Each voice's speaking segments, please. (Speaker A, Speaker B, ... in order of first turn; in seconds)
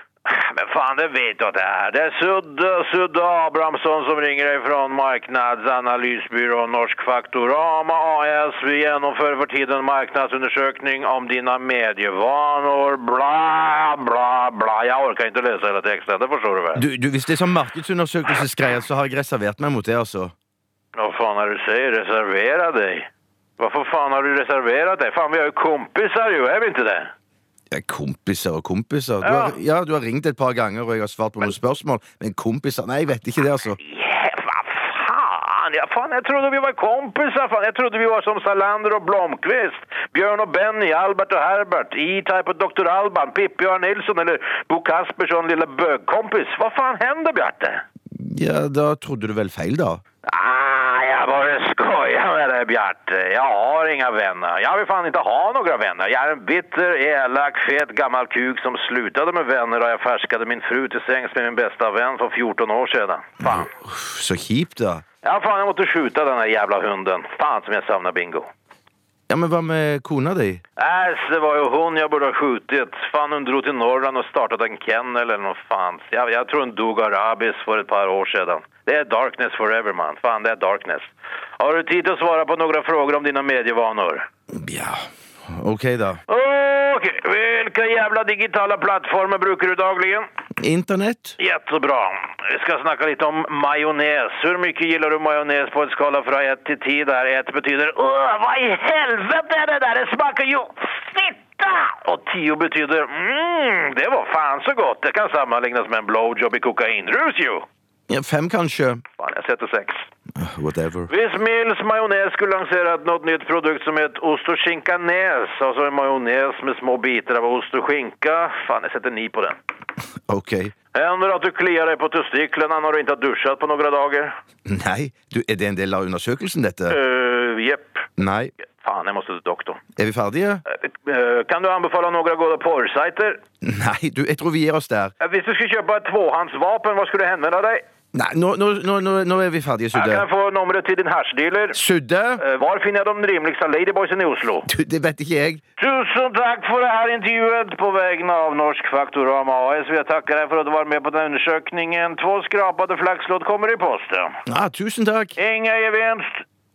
Speaker A: 0.2-16.9, 21.0-23.1, 23.6-27.1, 29.2-29.6, 33.8-47.8, 50.2-63.7, 65.2-68.5, 70.8-84.2, 86.3-90.2, 91.4-107.7, 109.2-110.1, 111.1-119.6, 120.9-124.3, 126.9-128.1, 128.8-129.8, 130.7-133.4, 135.2-137.8, 139.9-141.8, 142.4-144.7, 145.8-154.4, 155.4-156.4
Speaker B: 16.8-20.3, 27.7-33.8, 48.1-50.0, 63.4-65.0, 69.3-70.6, 84.5-86.2, 90.6-91.4, 108.1-109.0, 110.4-111.1, 120.3-120.7, 124.7-127.0, 128.2-128.5, 130.0-130.6, 133.6-135.1, 138.1-140.3, 141.7-142.4, 144.7-145.6, 154.5-155.4